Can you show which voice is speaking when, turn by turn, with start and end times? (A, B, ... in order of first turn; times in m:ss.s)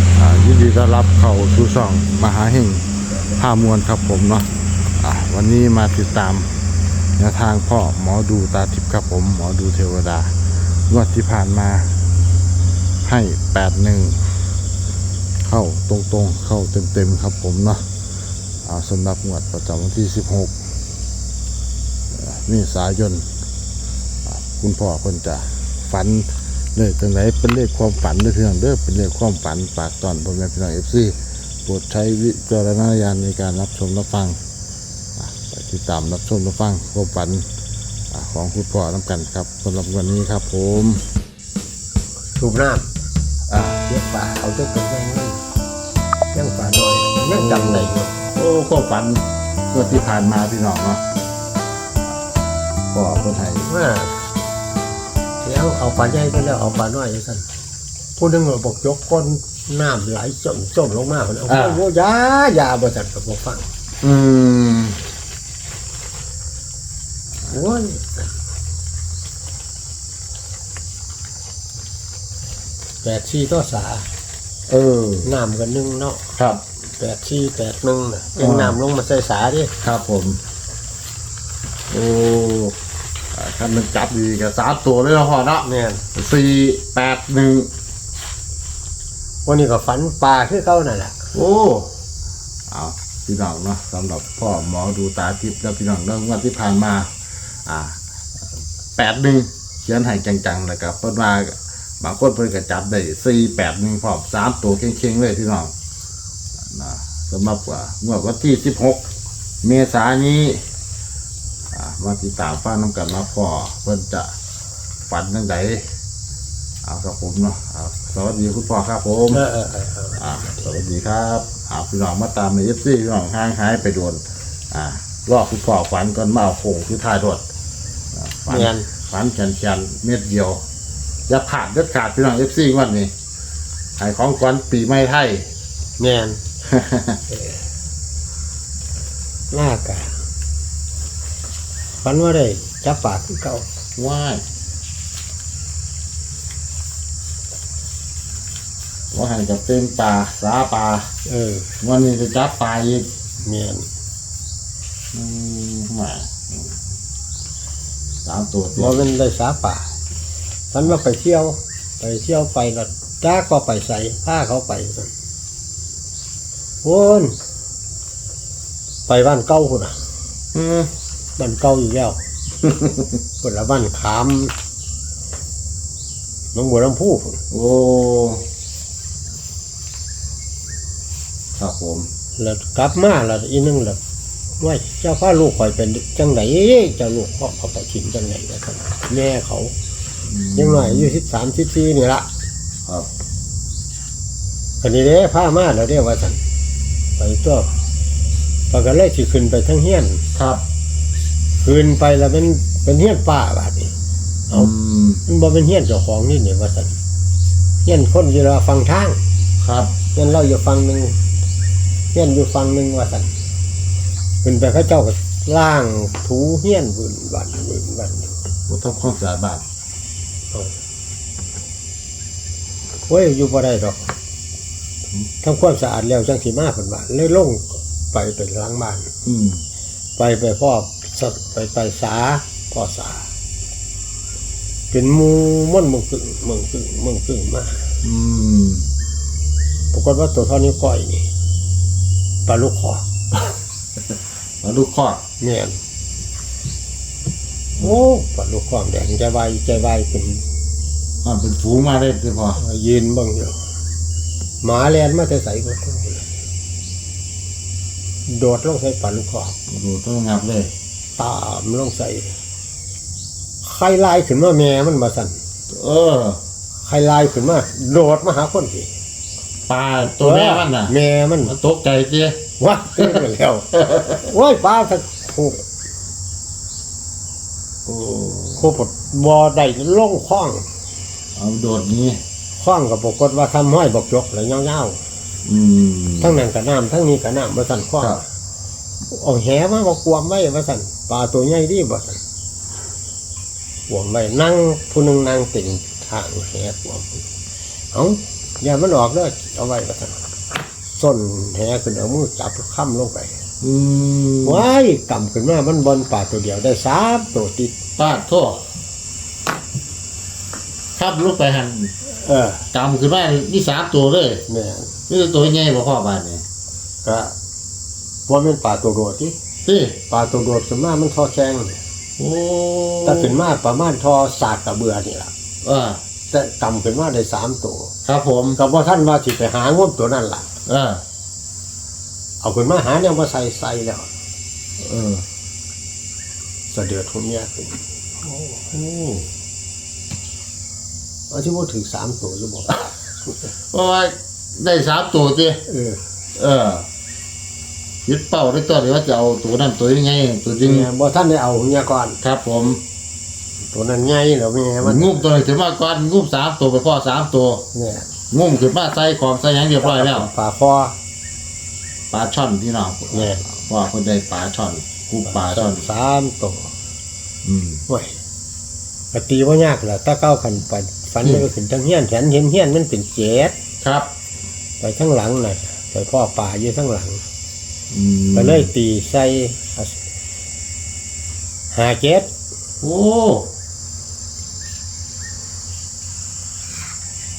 0:00.1-0:04.5 A
0:05.0-0:06.5 A
0:07.2-0:10.3 A
0:10.9-0:11.9 A
0:13.0-0:14.4 A
0:15.4-0:17.8 A
0:18.6-0:20.5 A
0:22.1-0:23.2 A
0:24.2-0:34.4 A
0:35.2-0:37.4 A
0:38.1-0:41.0 A
0:42.4-0:42.9 B
0:43.5-0:43.8 A
0:43.9-0:45.4 B
0:46.3-0:48.1 B
0:47.3-0:51.0 A
0:52.9-0:53.7 A
0:53.7-0:54.1 B
0:55.4-0:57.4 B
0:58.2-1:03.7 B
1:01.5-1:01.8 A
1:04.0-1:05.0 A
1:07.5-1:08.2 B
1:13.0-1:14.0 B
1:14.7-1:15.4 A
1:15.2-1:16.2 B
1:16.3-1:16.6 A
1:17.0-1:19.7 B
1:18.4-1:18.8 A
1:19.8-1:20.4 A
1:21.9-1:22.7 A
1:23.3-1:27.7 A
1:25.6-1:26.0 B
1:29.4-1:31.1 B
1:31.3-1:31.9 A
1:32.7-1:37.1 A
1:37.6-1:38.0 A
1:39.0-1:45.7 A
1:46.6-1:49.0 A
1:49.6-1:50.6 A
1:51.7-1:54.3 A
1:55.1-1:55.8 A
1:56.8-1:59.4 A
1:59.3-2:00.6 B
2:00.2-2:07.4 A
2:08.2-2:10.6 A
2:08.5-2:08.9 B
2:11.3-2:13.1 A
2:14.0-2:15.5 A
2:16.0-2:16.4 B
2:16.7-2:17.2 A
2:19.5-2:20.2 B
2:22.0-2:23.6 B
2:24.0-2:24.4 A
2:29.1-2:31.1 A
2:31.2-2:31.7 B
2:31.8-2:33.1 A
2:33.4-2:33.8 B
2:35.1-2:36.8 A
2:38.2-2:39.0 A
2:38.7-2:39.9 B
2:40.7-2:45.1 B
2:46.8-2:47.4 B
2:49.1-2:50.0 B
2:50.5-2:50.9 A
2:51.4-2:52.2 B
2:53.4-2:54.5 B
2:56.5-2:57.4 B
2:57.5-2:58.4 A
3:01.6-3:02.1 A
3:02.4-3:04.0 B
3:04.6-3:09.7 B
3:10.3-3:11.2 A
3:10.5-3:12.3 B
3:14.8-3:16.4 B
3:17.2-3:17.7 B
3:18.7-3:20.2 B
3:20.4-3:20.6 A
3:21.6-3:23.9 B
3:24.5-3:25.2 A
3:25.3-3:27.0 B
3:27.8-3:29.2 B
3:29.6-3:29.9 A
3:30.1-3:31.2 B
3:32.1-3:33.3 B
3:34.4-3:38.3 B
3:38.7-3:39.6 A
3:43.1-3:44.1 B
3:45.4-3:49.1 B
3:49.2-3:49.6 A
3:50.2-3:53.2 B
3:54.9-3:57.8 B
3:58.0-3:58.8 A
3:59.9-4:01.3 B
4:02.4-4:03.5 B
4:04.6-4:05.2 A
4:05.4-4:05.8 B
4:07.8-4:10.4 B
4:11.2-4:12.6 A
4:12.6-4:13.5 B
4:14.6-4:16.2 B
4:18.3-4:19.6 B
4:19.7-4:20.7 A
4:21.2-4:22.4 B
4:23.6-4:25.4 B
4:25.7-4:26.4 A
4:26.8-4:28.9 B
4:29.7-4:30.9 A
4:30.0-4:31.6 B
4:31.4-4:32.4 A
4:32.6-4:35.6 B
4:33.8-4:34.1 A
4:37.8-4:38.7 A
4:38.6-4:40.6 B
4:41.4-4:42.2 A
4:42.6-4:45.0 B
4:45.4-4:46.4 A
4:46.2-4:48.2 B
4:49.1-4:52.2 B
4:53.9-4:57.2 B
4:57.9-5:00.2 B
5:00.8-5:03.3 B
5:03.6-5:04.6 A
5:04.4-5:07.7 B
5:08.0-5:08.6 A
5:10.9-5:11.9 A
5:12.1-5:12.6 B
5:12.7-5:14.4 A
5:14.5-5:14.9 B
5:15.1-5:16.4 A
5:17.0-5:17.3 B
5:18.3-5:19.3 B
5:19.6-5:20.0 A
5:20.1-5:21.8 B
5:22.2-5:23.4 A
5:23.0-5:25.3 B
5:25.6-5:26.0 A
5:26.3-5:27.9 B
5:28.0-5:28.6 A
5:28.6-5:30.5 B
5:30.6-5:31.0 A
5:32.4-5:34.1 B
5:34.8-5:35.2 A
5:36.7-5:37.8 B
5:38.6-5:39.3 A
5:41.3-5:43.5 B
5:43.7-5:45.6 A
5:45.7-5:46.0 B
5:46.4-5:46.8 A
5:48.0-5:50.9 A
5:50.6-5:52.2 B
5:52.2-5:52.8 A
5:53.7-5:55.4 B
5:54.8-5:57.6 A
5:57.7-5:58.1 B
5:58.3-6:00.3 A
5:59.8-6:00.9 B
6:02.1-6:05.9 A
6:03.1-6:03.4 B
6:05.2-6:06.7 B
6:07.4-6:07.8 A
6:07.9-6:08.2 B
6:09.1-6:13.5 B
6:13.8-6:14.1 A
6:14.8-6:17.2 B
6:17.9-6:18.7 A
6:18.3-6:20.0 B
6:21.7-6:22.3 B
6:22.8-6:23.5 A